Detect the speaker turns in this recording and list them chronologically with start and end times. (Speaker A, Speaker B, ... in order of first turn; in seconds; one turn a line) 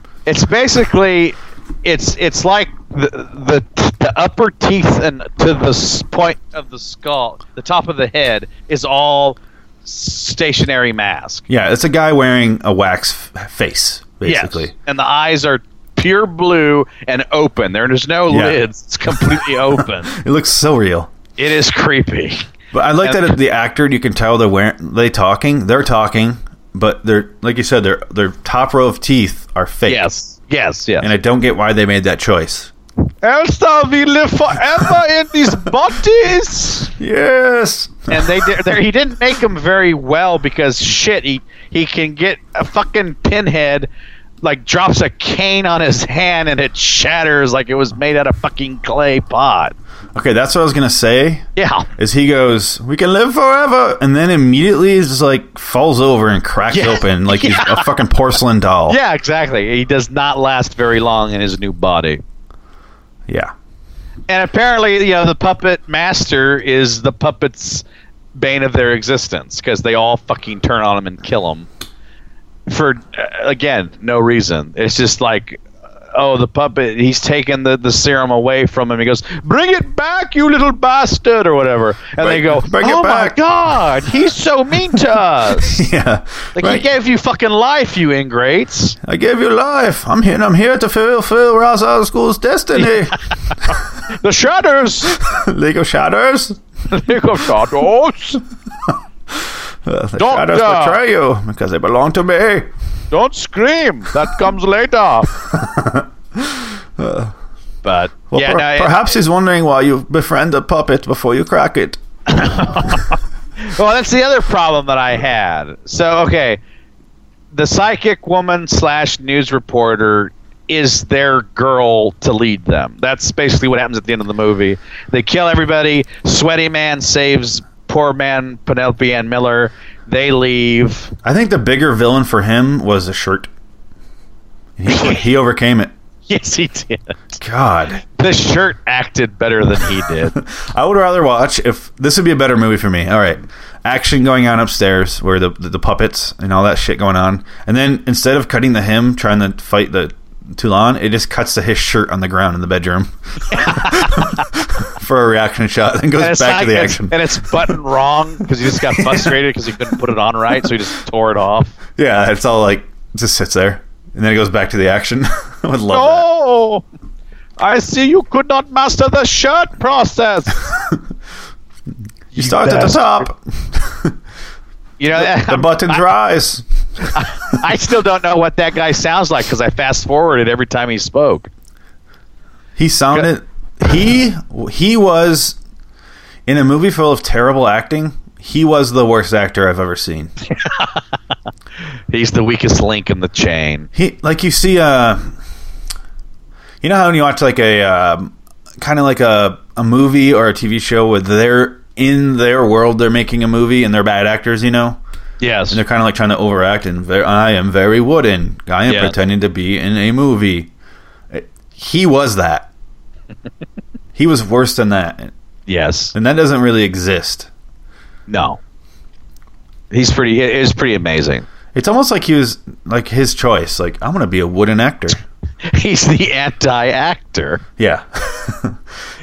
Speaker A: 0.2-11.4
Speaker B: 11.5-14.7
Speaker A: 14.2-20.1
Speaker B: 18.3-21.1
Speaker A: 21.4-22.4
Speaker B: 22.7-30.0
Speaker A: 23.0-23.4
Speaker A: 29.9-31.1
Speaker B: 31.0-32.7
Speaker A: 33.2-36.9
Speaker B: 37.0-38.6
Speaker A: 38.1-43.9
Speaker A: 44.4-49.7
Speaker B: 50.1-59.0
Speaker A: 51.5-51.9
Speaker A: 56.7-57.9
Speaker A: 58.9-62.2
Speaker A: 64.3-71.7
Speaker A: 72.7-85.9
Speaker B: 82.2-83.4
Speaker B: 85.5-86.8
Speaker A: 86.5-89.0
Speaker B: 89.0-93.8
Speaker A: 92.8-95.2
Speaker B: 95.2-96.6
Speaker A: 96.9-98.4
Speaker B: 98.9-102.7
Speaker A: 100.2-101.0
Speaker A: 103.1-105.3
Speaker B: 105.5-107.3
Speaker A: 107.8-109.2
Speaker B: 108.3-112.0
Speaker A: 112.3-116.6
Speaker A: 117.5-131.1
Speaker B: 131.2-133.5
Speaker B: 134.8-135.9
Speaker A: 134.9-135.2
Speaker A: 136.3-137.4
Speaker B: 137.4-138.0
Speaker A: 138.1-140.3
Speaker B: 140.3-157.2
Speaker A: 153.5-154.4
Speaker A: 156.2-161.8
Speaker B: 158.8-159.3
Speaker B: 161.9-166.3
Speaker A: 165.9-166.8
Speaker A: 167.6-170.6
Speaker A: 172.3-173.3
Speaker B: 172.3-174.2
Speaker A: 175.0-176.0
Speaker B: 175.1-177.6
Speaker A: 177.1-181.5
Speaker B: 182.8-185.6
Speaker B: 186.5-190.3
Speaker A: 190.5-191.0
Speaker A: 192.1-193.9
Speaker B: 193.9-195.3
Speaker B: 196.8-205.0
Speaker A: 205.4-205.8
Speaker B: 205.7-210.7
Speaker A: 208.9-209.2
Speaker B: 211.3-212.7
Speaker B: 214.1-215.3
Speaker A: 215.7-216.1
Speaker B: 216.1-217.5
Speaker A: 218.3-218.6
Speaker A: 219.9-221.4
Speaker B: 221.7-225.2
Speaker A: 225.6-227.6
Speaker B: 227.8-228.8